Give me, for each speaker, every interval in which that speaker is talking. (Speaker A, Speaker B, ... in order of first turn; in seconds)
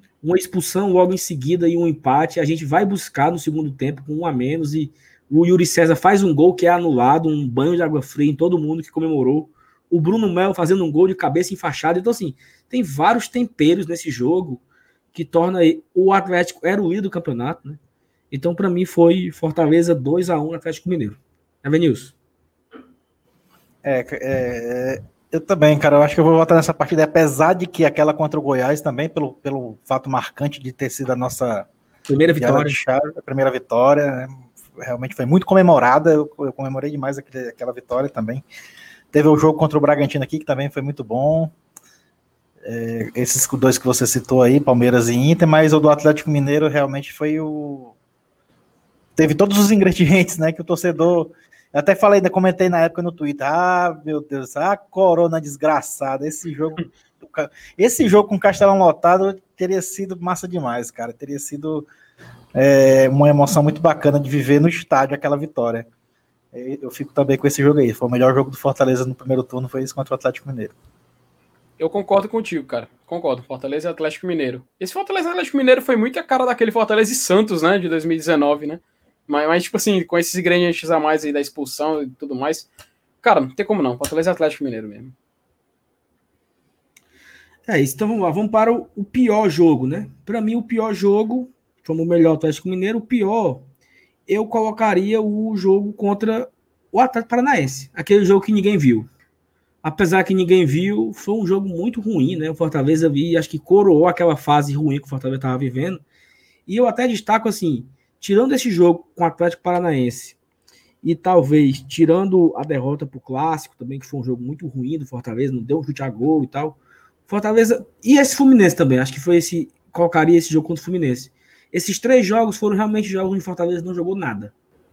Speaker A: 0.2-17.8, 18.3-22.1, 32.1-32.8, 87.7-93.7, 94.3-99.1, 99.8-106.0, 106.7-110.4, 111.0-124.5
Speaker B: 23.8-31.7, 32.4-38.4, 39.1-41.5, 42.6-47.9, 49.1-61.9, 62.5-65.9, 66.5-70.7
Speaker C: 71.8-82.7, 83.2-85.1